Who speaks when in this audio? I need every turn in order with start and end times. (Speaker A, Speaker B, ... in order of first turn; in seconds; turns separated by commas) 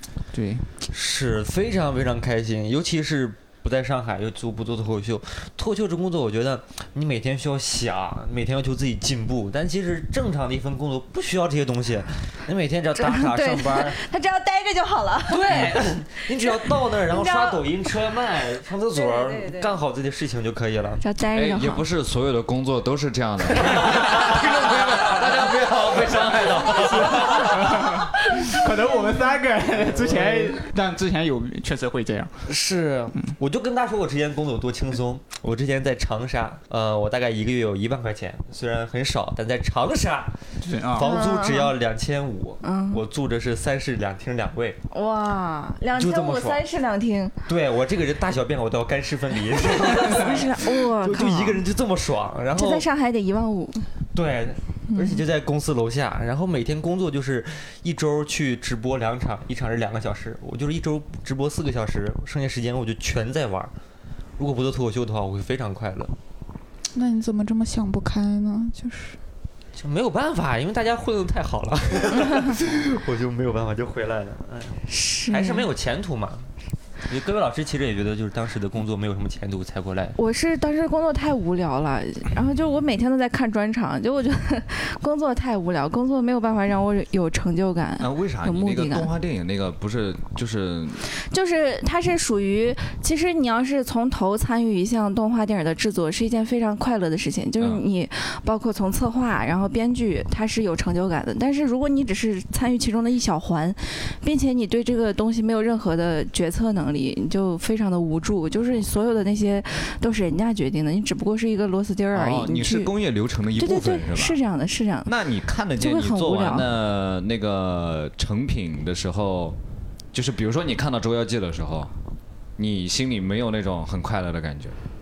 Speaker A: 0.3-0.7, Speaker B: 0.9-14.0, Speaker C: 12.9-17.6, Speaker B: 15.3-21.0, Speaker C: 18.9-19.7, Speaker C: 21.0-21.9, Speaker D: 21.3-27.2, Speaker B: 23.6-27.9, Speaker A: 27.1-32.5, Speaker B: 29.9-30.6, Speaker B: 32.5-44.8, Speaker A: 40.6-41.1, Speaker C: 41.0-41.7, Speaker C: 42.6-43.0, Speaker C: 44.9-47.3, Speaker B: 45.9-46.6, Speaker B: 47.5-52.9, Speaker C: 50.0-51.6, Speaker C: 52.5-53.9, Speaker B: 54.1-63.7, Speaker C: 54.9-55.2, Speaker B: 64.4-66.1, Speaker E: 66.9-69.2, Speaker B: 69.8-76.5, Speaker C: 74.9-75.7, Speaker B: 77.0-80.2, Speaker C: 80.2-89.1, Speaker D: 88.0-91.0, Speaker C: 91.1-112.9, Speaker D: 112.1-114.4, Speaker C: 113.6-115.1, Speaker D: 115.0-119.6, Speaker C: 115.8-116.7, Speaker D: 120.1-121.9, Speaker D: 122.6-124.8